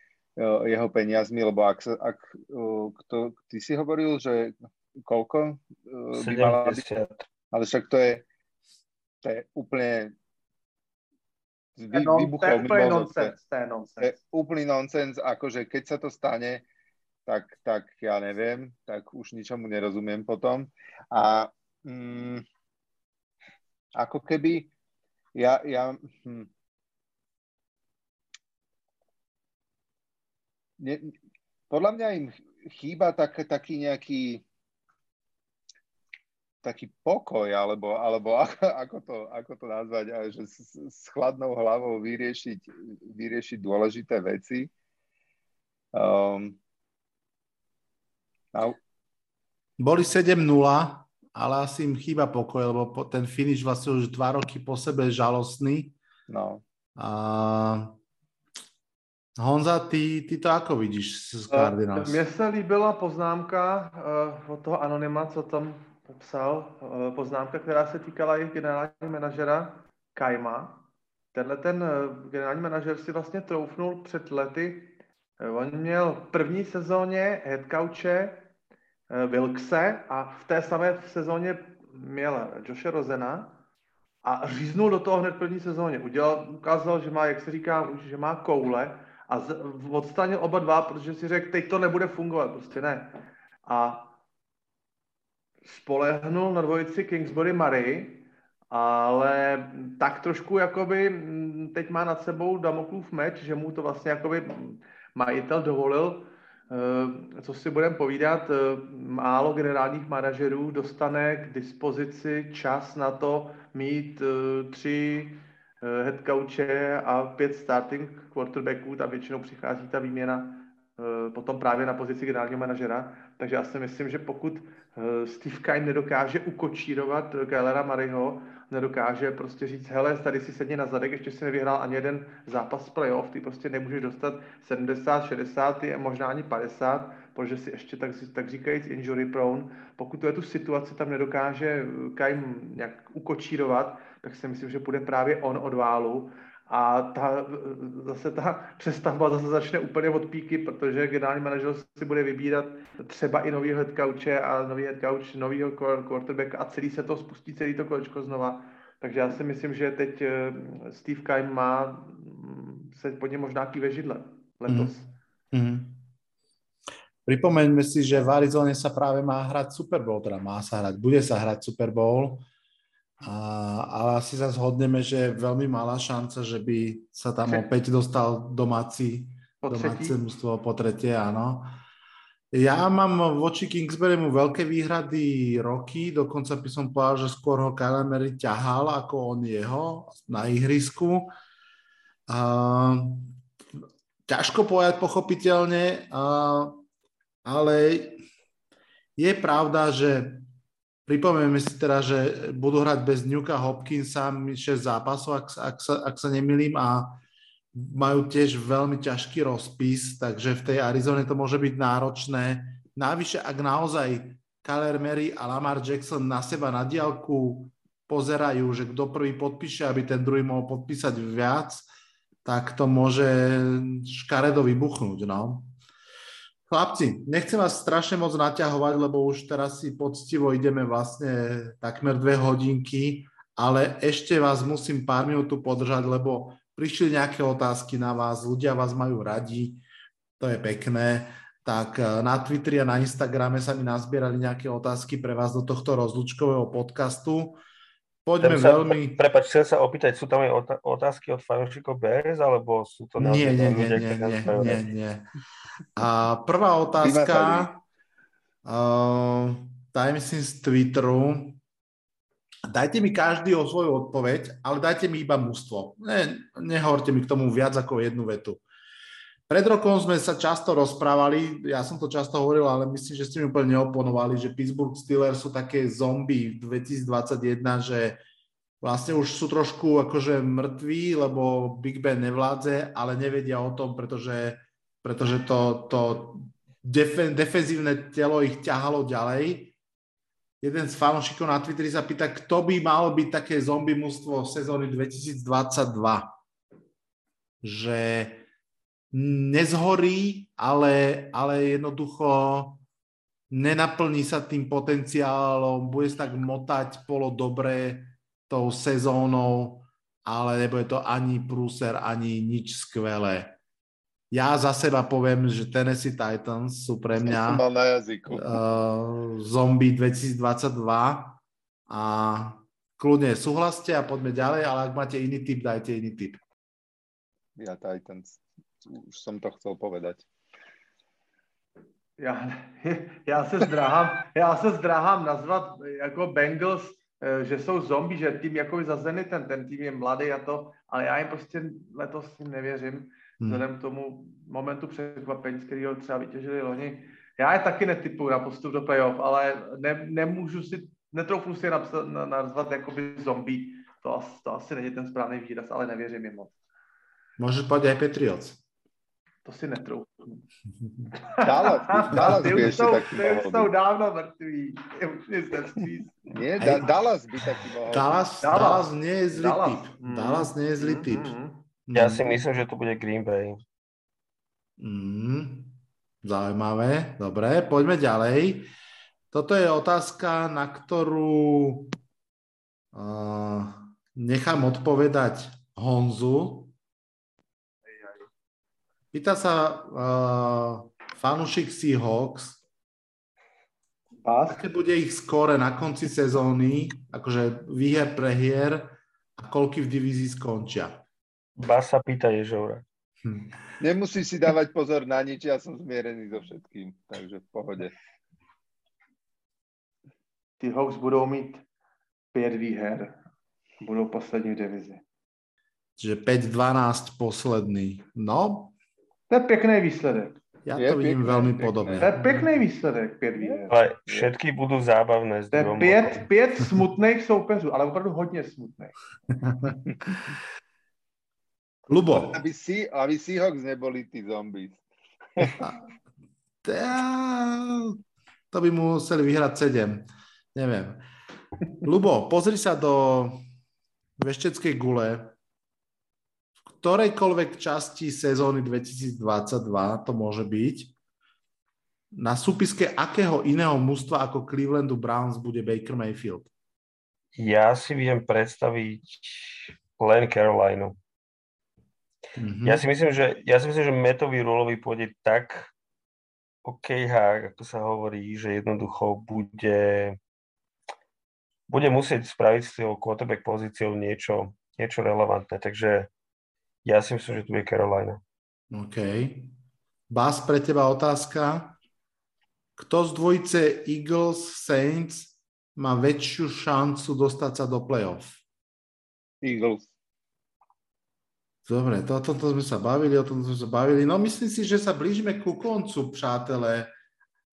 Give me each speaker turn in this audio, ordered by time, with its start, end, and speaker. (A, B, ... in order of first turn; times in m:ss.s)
0:00.4-0:06.8 A
0:06.1-0:07.2 B
0:07.5-0:08.2 A
0:09.2-0:10.1 A
0:11.8-0:13.3 A
0:11.9-0:14.1 C
0:14.0-0:16.6 A
0:17.3-0:22.4 A
0:23.9-0:24.7 A
0:25.3-0:26.5 A
0:30.8-0:31.1 A
0:31.7-0:34.4 A
0:36.6-0:44.7 A
0:45.9-0:46.6 A
0:49.8-0:56.0 D
0:56.3-0:56.6 A
0:57.0-0:57.9 D
0:59.4-1:02.2 D
1:01.5-1:18.4 C
1:19.1-1:23.6 C
1:24.2-1:34.2 C
1:35.6-2:45.1 C
2:44.7-2:44.9 D
2:45.5-2:46.1 D
2:47.2-2:52.5 D
2:53.2-3:01.8 D
2:59.6-3:00.2 C
3:02.5-3:11.3 D
3:12.3-3:13.3 D
3:14.3-3:16.8 D
3:17.4-3:18.2 D
3:19.2-3:20.4 D
3:21.0-3:27.2 D
3:27.7-3:41.8 D
3:42.4-3:45.7 D
3:46.7-3:59.8 D
4:00.4-4:07.6 D
4:08.2-4:09.2 D
4:08.4-4:14.8 B
4:13.2-4:15.2 D
4:16.0-4:17.8 D
4:17.0-4:17.7 A
4:18.6-4:21.6 D
4:22.7-4:28.6 D
4:29.5-4:38.2 D
4:38.8-4:49.7 D
4:50.6-4:56.4 D
4:57.6-4:58.4 D
4:59.1-5:02.8 D
5:03.5-5:13.6 D
5:14.3-5:17.6 D
5:17.2-5:18.6 A
5:18.3-5:26.4 D
5:27.6-5:30.3 A
5:32.2-5:56.5 C
5:57.4-5:58.6 D
5:59.4-6:00.4 C
6:01.2-6:06.3 C
6:01.4-6:03.7 A
6:02.2-6:02.7 D
6:06.3-6:08.2 A
6:06.6-6:06.8 D
6:07.9-6:11.3 D
6:08.4-6:11.6 C
6:11.9-6:12.4 D
6:11.9-6:13.6 B
6:14.8-6:18.7 D
6:19.3-6:21.9 D
6:22.9-6:26.7 D
6:27.9-6:28.3 C
6:29.1-6:32.6 D
6:34.2-6:34.6 C
6:34.5-6:41.0 D
6:41.6-6:42.8 B
6:43.2-6:43.5 D
6:43.8-6:47.9 A
6:50.6-6:51.6 C
6:52.3-6:53.2 C
6:53.8-6:55.0 C
6:56.0-6:58.7 D
6:59.3-7:00.4 C
7:00.6-7:02.5 D
7:00.8-7:02.1 A
7:01.6-7:03.7 C
7:03.4-7:04.3 A
7:03.7-7:06.2 B
7:05.5-7:08.9 C
7:09.4-7:10.1 D
7:11.9-7:12.4 D
7:12.1-7:14.8 A
7:16.6-7:18.0 D
7:18.5-7:21.0 D
7:21.8-7:23.4 D
7:24.2-7:25.3 D
7:26.7-7:30.9 D
7:32.1-7:36.5 D
7:37.4-7:41.0 B
7:42.4-7:42.8 D
7:42.6-7:45.7 B
7:46.6-7:50.2 B
7:51.7-7:56.1 B
7:56.8-7:58.2 B
7:58.7-7:59.5 D
8:00.1-8:01.8 D
8:02.8-8:08.4 D
8:09.4-8:09.9 A
8:11.6-8:16.9 D